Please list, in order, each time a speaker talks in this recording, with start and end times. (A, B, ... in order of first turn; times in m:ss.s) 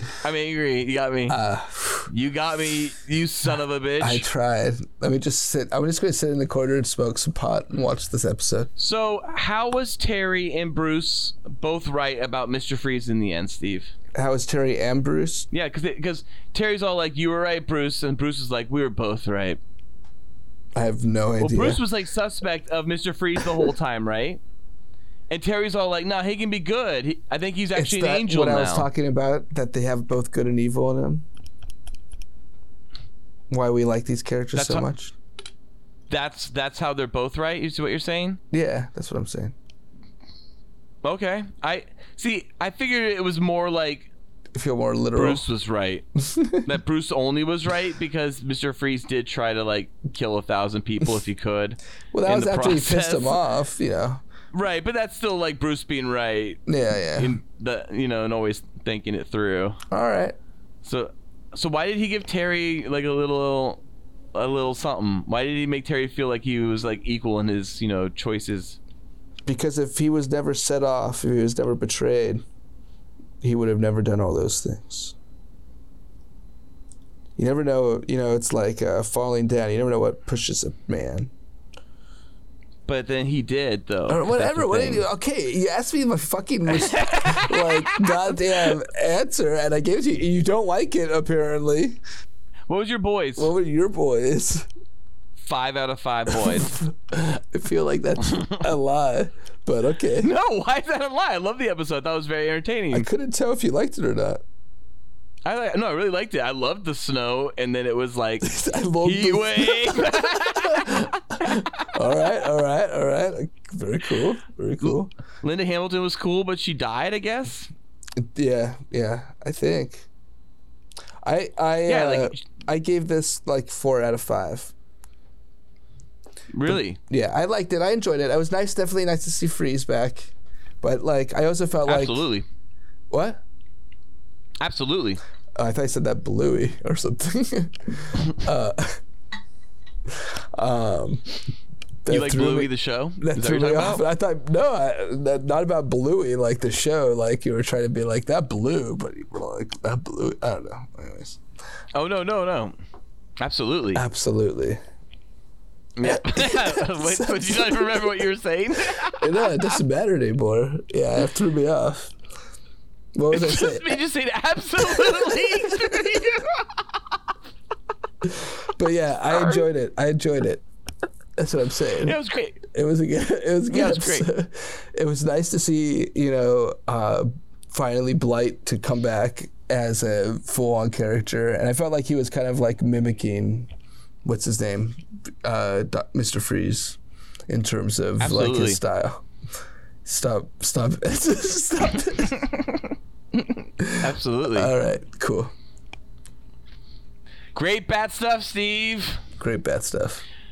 0:00.2-0:01.4 A
0:01.3-0:02.1 B
0:02.1-0:04.3 A
0:04.0-0:08.7 B
0:08.8-0:13.9 A
0:14.1-0:15.5 B
0:15.5-0:19.6 A
0:20.7-0:21.8 B
0:21.4-0:24.4 A
0:25.3-0:28.9 A
0:27.7-0:31.2 B
0:33.5-0:35.1 B
0:34.5-0:34.8 A
0:36.1-0:38.4 A
0:38.5-0:39.5 B
0:41.0-0:44.1 A
0:44.5-0:45.4 B
0:45.1-0:46.1 A
0:46.2-0:46.6 B
0:46.6-0:53.4 A
0:52.1-0:54.2 B
0:54.5-0:56.6 A
0:56.7-0:57.4 B
0:57.1-0:59.8 A
0:59.9-1:00.4 B
1:00.8-1:03.8 A
1:04.3-1:08.8 A
1:09.4-1:12.4 B
1:13.4-1:15.1 B
1:17.4-1:21.3 B
1:22.9-1:25.0 A
1:24.1-1:32.0 B
1:26.7-1:28.7 A
1:32.7-1:33.5 A
1:33.4-1:34.6 B
1:35.4-1:36.7 A
1:36.3-1:40.3 B
1:40.2-1:43.1 A
1:42.9-1:44.4 B
1:45.4-1:51.9 A
1:48.4-1:55.1 B
1:54.8-1:57.7 A
1:58.2-2:00.1 B
2:01.2-2:04.7 B
2:01.9-2:02.4 A
2:06.5-2:07.0 A
2:06.6-2:12.2 B
2:11.9-2:12.4 A
2:13.1-2:13.4 B
2:14.6-2:15.2 A
2:15.6-2:19.0 B
2:20.1-2:21.3 B
2:22.0-2:31.4 B
2:22.1-2:24.0 A
2:31.9-2:32.7 A
2:33.4-2:34.0 A
2:33.9-2:34.8 B
2:36.0-2:39.6 A
2:36.0-2:38.2 B
2:39.1-2:42.1 B
2:43.1-2:44.0 B
2:43.3-2:46.7 A
2:44.8-2:46.2 B
2:48.2-2:50.6 B
2:49.3-2:49.6 A
2:51.4-2:52.2 B
2:52.0-2:52.6 A
2:52.7-3:03.7 B
2:53.7-2:54.3 A
3:04.2-3:07.0 B
3:07.5-3:09.2 B
3:08.2-3:08.8 A
3:10.0-3:12.6 B
3:13.8-3:15.5 B
3:14.0-3:14.7 A
3:17.6-3:19.2 A
3:19.4-3:20.2 B